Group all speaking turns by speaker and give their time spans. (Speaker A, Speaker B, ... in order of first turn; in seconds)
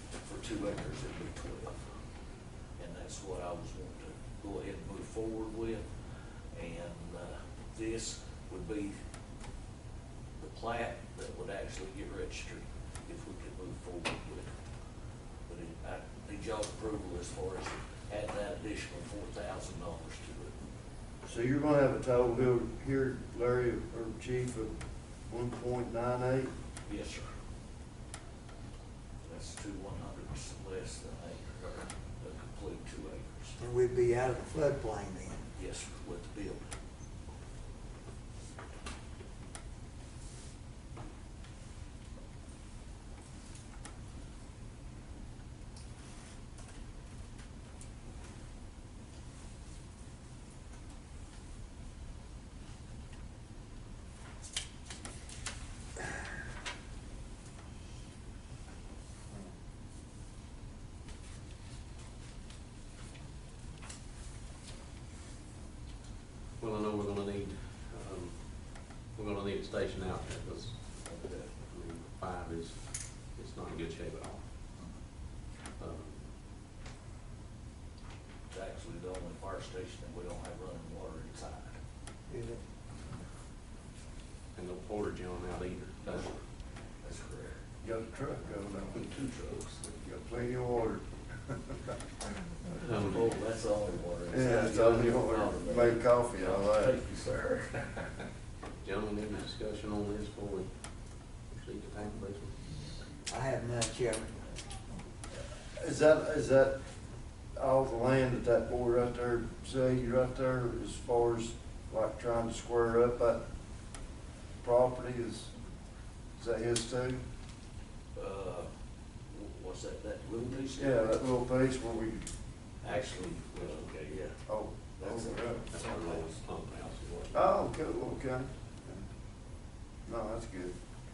Speaker A: 0.2-1.8, 2.8-5.8, 6.5-9.0, 10.4-14.5, 15.5-20.6, 26.9-27.3, 29.2-33.6, 35.5-36.7, 71.0-71.5, 78.5-81.8, 86.0-86.4, 87.0-87.6, 88.9-89.8, 93.1-98.2, 118.2-118.7, 119.3-121.2, 122.8-124.4, 125.0-126.4
Speaker B: 21.2-24.8, 25.3-26.5, 87.8-89.1, 89.8-91.9, 94.3-97.0, 105.7-106.8, 107.6-113.4, 114.6-115.5, 116.4-117.2, 120.8-122.3, 124.5-125.7, 127.3-129.0, 130.1-130.7
Speaker C: 33.6-35.4, 82.3-82.6, 103.3-104.5
Speaker D: 66.6-71.0, 71.6-74.4, 75.8-76.3, 84.5-86.3, 92.8-93.2, 98.8-102.6, 123.5-124.2, 125.7-127.5